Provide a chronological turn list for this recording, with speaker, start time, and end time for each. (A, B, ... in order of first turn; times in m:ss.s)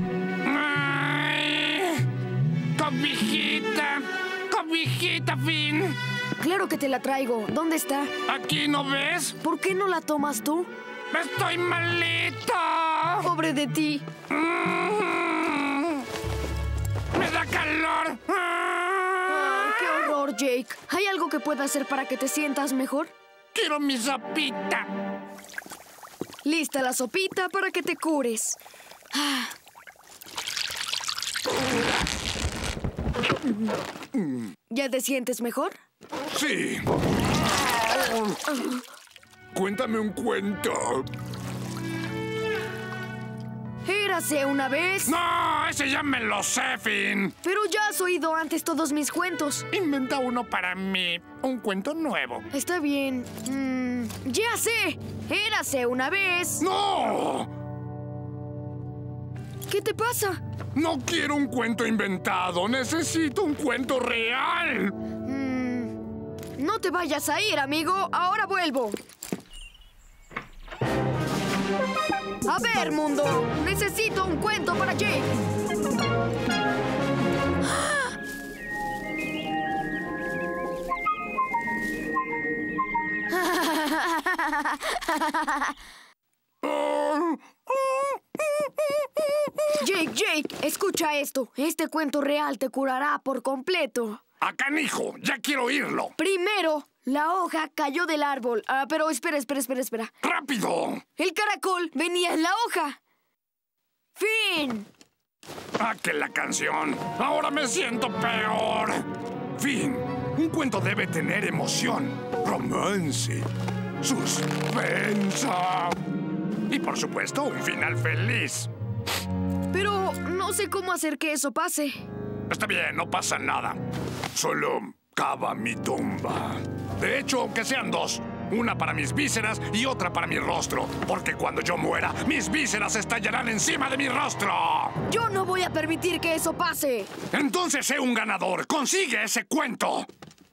0:00.4-0:02.1 A
0:02.8-0:06.0 A
0:06.4-0:08.1 B
0:08.3-0:09.4 A
0:09.4-0:10.7 B
0:11.1-0:13.3 A
0:13.2-0:14.0 B
0:14.3-0:16.0 A
0:17.1-0:20.1 A
0:19.3-0:23.1 B
0:23.5-0:24.9 A
0:26.4-0:28.6 B
0:29.1-0:29.6 B
0:34.7-0:35.8 B
0:36.3-0:36.9 A
0:37.7-0:38.6 A
0:39.5-0:41.1 A
0:43.8-0:45.2 B
0:45.1-0:47.4 A
0:47.4-0:49.7 B
0:49.7-0:52.5 A
0:52.5-0:56.6 B
0:56.6-0:57.5 A
0:59.7-1:00.4 B
1:00.7-1:05.0 A
1:05.2-1:06.0 B
1:06.6-1:09.0 B
1:12.4-1:15.3 B
1:23.3-1:25.7 B
1:26.6-1:28.2 A
1:29.8-1:34.2 B
1:34.4-1:36.2 A
1:36.2-1:40.1 B
1:40.2-1:41.0 A
1:41.2-1:43.0 B
1:44.2-1:44.9 B
1:45.8-1:53.5 A
1:54.0-1:56.0 A
1:56.7-1:58.7 A
1:59.7-2:02.0 B
2:02.5-2:03.8 A
2:04.3-2:15.0 A
2:15.1-2:17.1 B
2:17.3-2:20.1 A